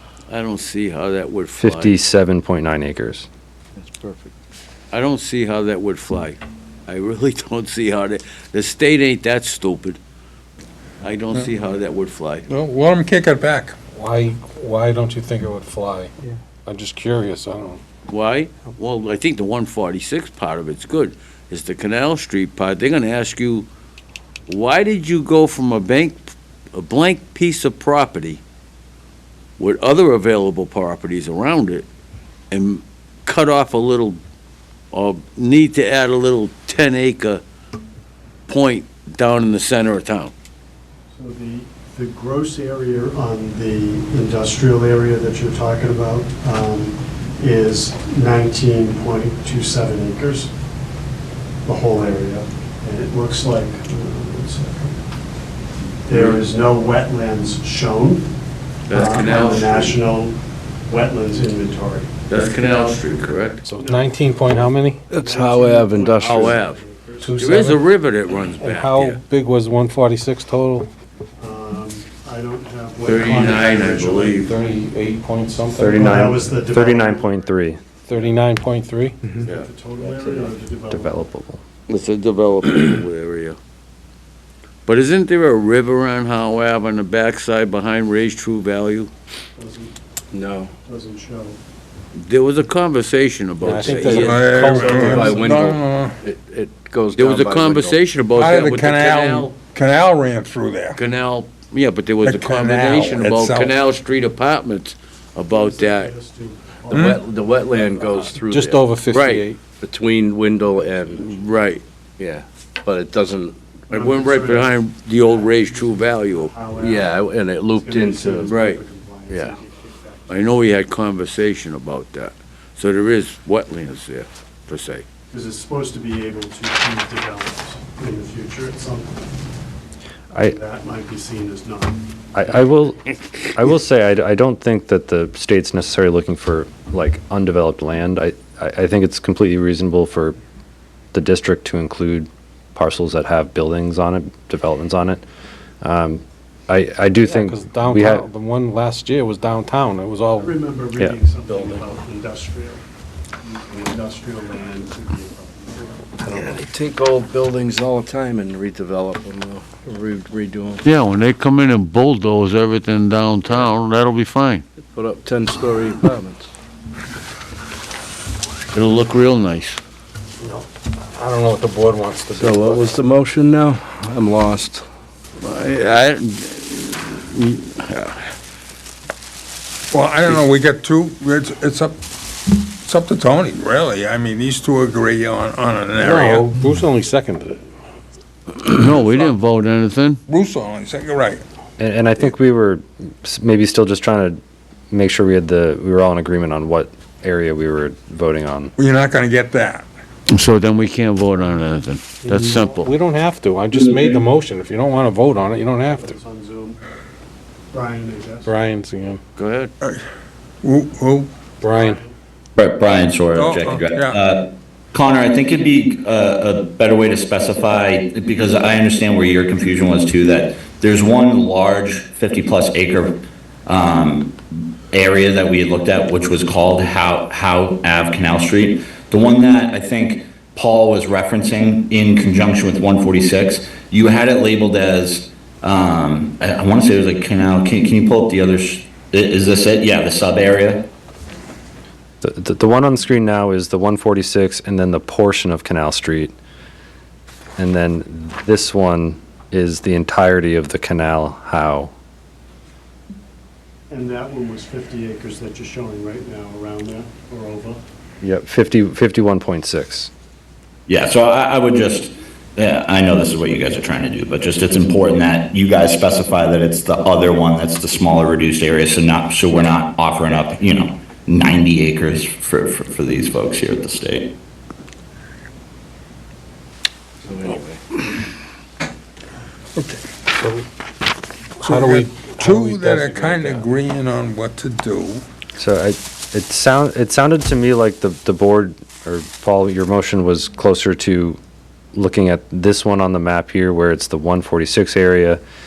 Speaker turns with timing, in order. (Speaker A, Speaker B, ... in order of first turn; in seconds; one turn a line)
Speaker A: 0.3-2.0
Speaker B: 1.6-3.3
Speaker C: 3.8-4.3
Speaker A: 4.9-10.0
Speaker A: 11.0-12.5
Speaker D: 12.5-13.8
Speaker E: 13.9-16.1
Speaker E: 16.6-17.8
Speaker A: 18.1-23.7
Speaker A: 24.5-26.2
Speaker A: 26.7-28.4
Speaker A: 29.6-31.9
Speaker A: 32.5-34.2
Speaker A: 34.9-37.4
Speaker A: 38.5-40.3
Speaker F: 41.1-50.5
Speaker F: 51.6-55.0
Speaker F: 56.0-58.3
Speaker A: 58.9-59.9
Speaker F: 58.9-62.1
Speaker A: 62.3-63.6
Speaker E: 63.6-65.1
Speaker F: 63.8-67.4
Speaker C: 65.1-66.5
Speaker A: 66.2-66.8
Speaker E: 67.2-67.8
Speaker A: 67.4-69.2
Speaker E: 68.6-70.9
Speaker F: 71.4-74.5
Speaker A: 73.0-74.5
Speaker E: 74.4-76.3
Speaker F: 75.7-77.5
Speaker B: 75.7-77.8
Speaker E: 78.1-79.3
Speaker F: 79.3-81.2
Speaker C: 80.0-80.5
Speaker B: 80.9-81.6
Speaker A: 81.9-83.6
Speaker A: 84.9-89.1
Speaker F: 89.5-89.9
Speaker C: 90.3-90.7
Speaker F: 90.8-91.6
Speaker A: 92.2-94.6
Speaker E: 93.6-95.5
Speaker D: 94.1-96.2
Speaker C: 94.7-98.0
Speaker A: 97.1-99.5
Speaker D: 98.3-101.0
Speaker A: 100.9-106.1
Speaker D: 102.2-103.8
Speaker F: 105.5-108.1
Speaker C: 106.9-108.8
Speaker E: 108.5-109.6
Speaker A: 109.1-109.5
Speaker C: 109.8-111.4
Speaker A: 111.2-111.8
Speaker C: 112.2-113.6
Speaker A: 113.9-116.5
Speaker F: 113.9-120.6
Speaker C: 116.7-118.5
Speaker A: 118.4-118.8
Speaker C: 119.3-119.5
Speaker A: 120.3-125.0
Speaker F: 125.3-129.3
Speaker F: 130.4-132.0
Speaker B: 132.3-140.4
Speaker B: 141.1-145.2
Speaker B: 145.8-148.3
Speaker E: 147.2-150.6
Speaker F: 150.4-152.8
Speaker C: 151.5-151.8
Speaker F: 153.4-156.6
Speaker C: 156.2-160.8
Speaker A: 160.8-164.6
Speaker C: 164.9-166.5
Speaker A: 168.7-169.8
Speaker E: 170.4-173.0
Speaker C: 172.3-174.9
Speaker A: 175.4-178.3
Speaker D: 179.9-182.0
Speaker D: 182.5-186.4
Speaker E: 185.9-187.6
Speaker A: 188.6-190.2
Speaker D: 188.9-189.4
Speaker D: 190.3-191.4
Speaker B: 191.8-194.4
Speaker B: 194.9-198.7
Speaker D: 198.8-199.8
Speaker A: 200.3-202.9
Speaker F: 202.2-202.9
Speaker E: 202.5-206.1
Speaker F: 205.9-206.8
Speaker F: 207.7-208.5
Speaker E: 208.4-209.2
Speaker A: 209.4-209.7
Speaker D: 210.6-211.3
Speaker E: 211.6-212.0
Speaker F: 211.7-212.1
Speaker G: 212.6-224.4
Speaker D: 213.3-214.2
Speaker G: 224.9-240.9
Speaker B: 242.2-246.3
Speaker B: 247.6-251.9
Speaker F: 253.9-257.8
Speaker B: 258.2-260.1
Speaker G: 260.9-274.3
Speaker C: 277.2-278.0
Speaker D: 279.7-280.0
Speaker E: 280.4-280.6
Speaker E: 281.6-283.7
Speaker D: 281.6-285.2
Speaker B: 285.6-291.4
Speaker B: 291.9-295.4